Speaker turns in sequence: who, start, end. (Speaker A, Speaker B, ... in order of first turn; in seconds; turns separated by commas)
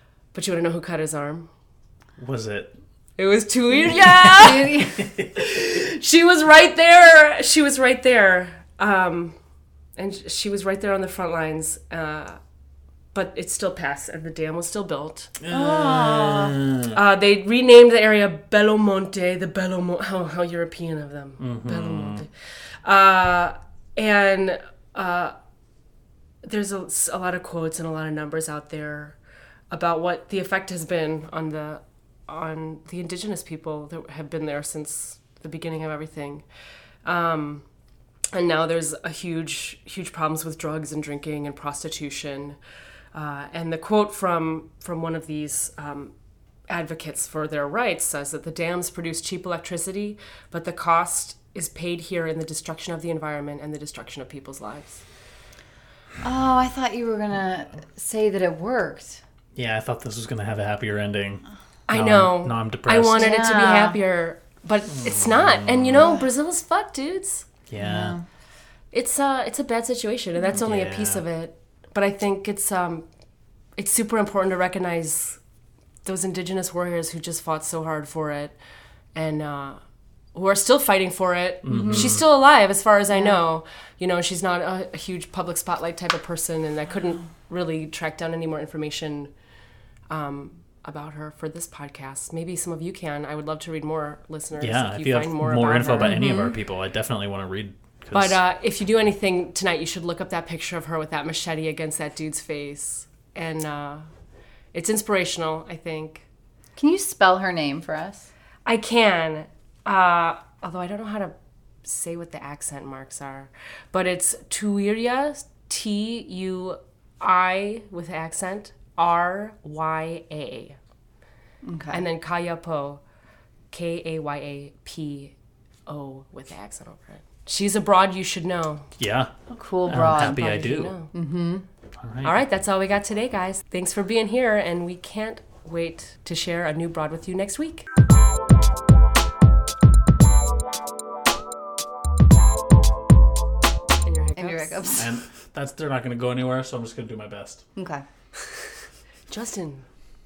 Speaker A: 0.3-1.5, Speaker B: 2.2-2.7, Speaker A: 3.2-9.3, Speaker C: 4.4-5.0, Speaker A: 10.0-12.4, Speaker A: 13.1-15.3, Speaker B: 15.4-16.9, Speaker C: 15.5-16.6, Speaker A: 16.9-25.3, Speaker B: 21.4-22.2, Speaker A: 26.4-29.2, Speaker A: 29.7-36.5, Speaker A: 37.0-37.6, Speaker A: 38.3-42.6, Speaker A: 43.1-46.1, Speaker A: 46.7-55.0, Speaker C: 56.2-59.2, Speaker B: 59.5-63.2, Speaker A: 61.9-67.5, Speaker C: 63.2-64.0, Speaker B: 64.9-66.0, Speaker B: 67.7-68.2, Speaker C: 67.8-68.2, Speaker A: 68.9-73.0, Speaker B: 70.5-71.2, Speaker A: 73.8-75.4, Speaker A: 76.0-78.6, Speaker A: 79.2-79.8, Speaker A: 80.3-89.3, Speaker B: 81.7-82.2, Speaker C: 81.7-82.1, Speaker C: 83.1-83.4, Speaker A: 90.1-96.2, Speaker B: 94.6-98.4, Speaker C: 96.0-96.5, Speaker A: 98.1-104.1, Speaker A: 104.7-106.3, Speaker C: 106.8-108.3, Speaker A: 108.7-111.3, Speaker A: 111.8-120.8, Speaker C: 121.6-122.0, Speaker A: 121.9-123.0, Speaker A: 123.7-125.3, Speaker A: 125.9-128.9, Speaker B: 129.0-130.9, Speaker C: 129.5-130.4, Speaker A: 129.9-131.1, Speaker C: 131.1-131.7, Speaker B: 132.0-132.4, Speaker A: 132.2-137.9, Speaker A: 144.0-145.0, Speaker C: 144.4-145.1, Speaker B: 145.0-147.7, Speaker C: 147.8-148.0, Speaker A: 149.3-149.9